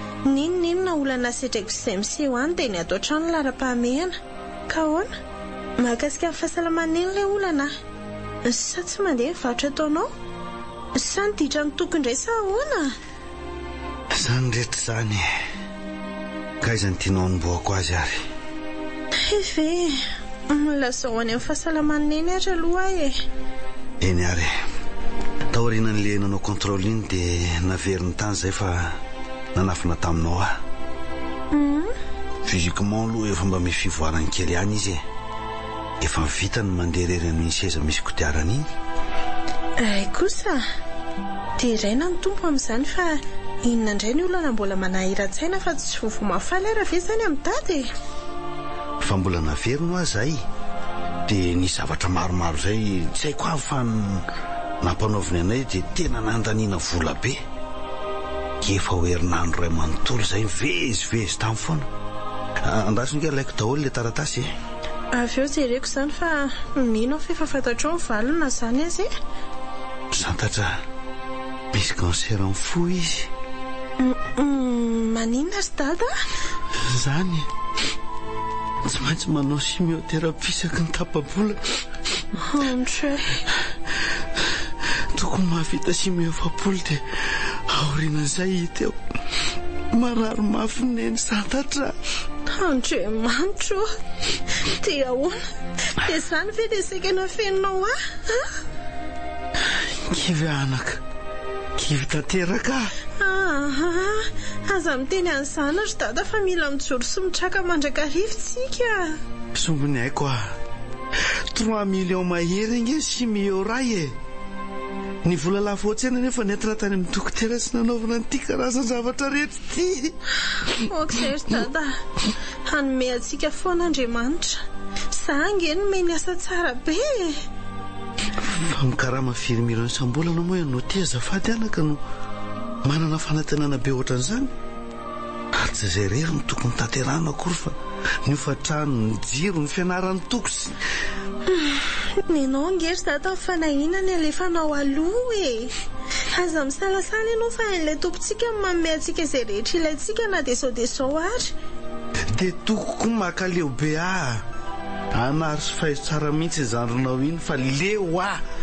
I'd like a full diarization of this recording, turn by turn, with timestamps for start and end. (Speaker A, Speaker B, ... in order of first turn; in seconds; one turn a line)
Speaker A: 0.2-4.2
Speaker A: 4.7-5.1
Speaker A: 5.8-7.7
Speaker A: 8.4-10.1
Speaker A: 10.9-13.0
Speaker B: 14.1-15.3
Speaker B: 16.6-18.3
Speaker A: 19.2-23.2
Speaker B: 24.0-24.6
Speaker B: 25.5-29.0
Speaker B: 29.5-30.6
Speaker A: 31.5-31.9
Speaker B: 32.4-35.0
Speaker B: 36.0-38.7
Speaker A: 39.8-40.6
Speaker A: 41.6-47.9
Speaker B: 49.0-50.4
Speaker B: 51.3-54.3
Speaker B: 54.8-57.4
Speaker B: 58.6-61.9
Speaker B: 62.6-64.5
Speaker A: 65.1-69.1
Speaker B: 70.1-70.8
Speaker B: 71.7-73.3
Speaker A: 74.0-76.2
Speaker B: 76.7-77.5
Speaker B: 78.8-81.8
Speaker A: 82.4-83.4
Speaker B: 84.9-89.0
Speaker B: 89.9-92.0
Speaker A: 92.5-93.9
Speaker A: 94.6-98.5
Speaker B: 99.6-101.0
Speaker B: 101.8-102.9
Speaker A: 103.2-109.2
Speaker B: 109.5-110.6
Speaker B: 111.2-114.2
Speaker B: 115.2-120.1
Speaker A: 120.6-122.0
Speaker A: 122.7-127.4
Speaker B: 128.4-132.0
Speaker B: 132.8-134.5
Speaker B: 135.5-140.8
Speaker A: 141.5-145.8
Speaker A: 146.3-151.5
Speaker B: 152.3-154.4
Speaker B: 155.1-158.4